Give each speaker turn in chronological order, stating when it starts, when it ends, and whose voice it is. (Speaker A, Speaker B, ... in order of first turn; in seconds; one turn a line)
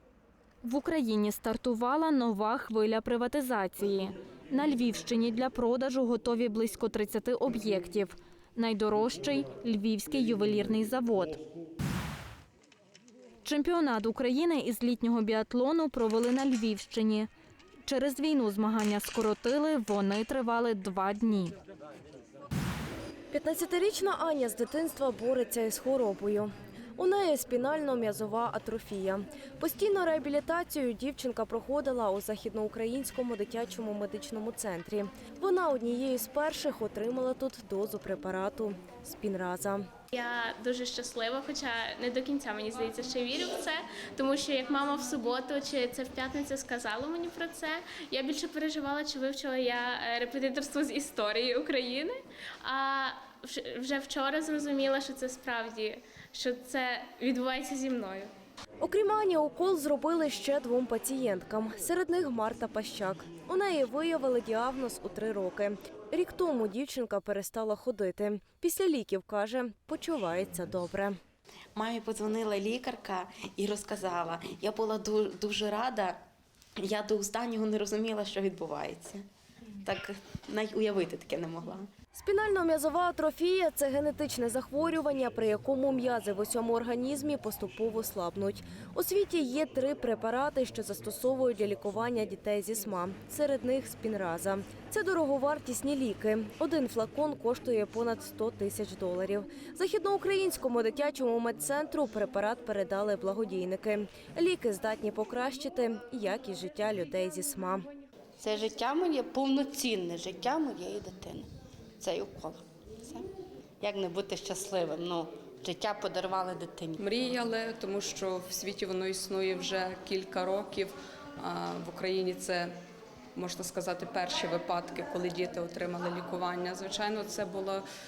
Speaker A: 0.6-11.4
Speaker A: 13.4-17.3
Speaker A: 17.8-21.6
Speaker B: 23.3-39.9
Speaker C: 40.1-58.3
Speaker B: 58.8-71.2
Speaker D: 71.7-76.2
Speaker D: 76.8-79.3
Speaker D: 79.8-81.9
Speaker B: 82.2-107.9
Speaker D: 108.4-111.5
Speaker D: 112.0-113.3
Speaker D: 113.8-117.0
Speaker E: 117.0-122.7
Speaker E: 123.3-127.8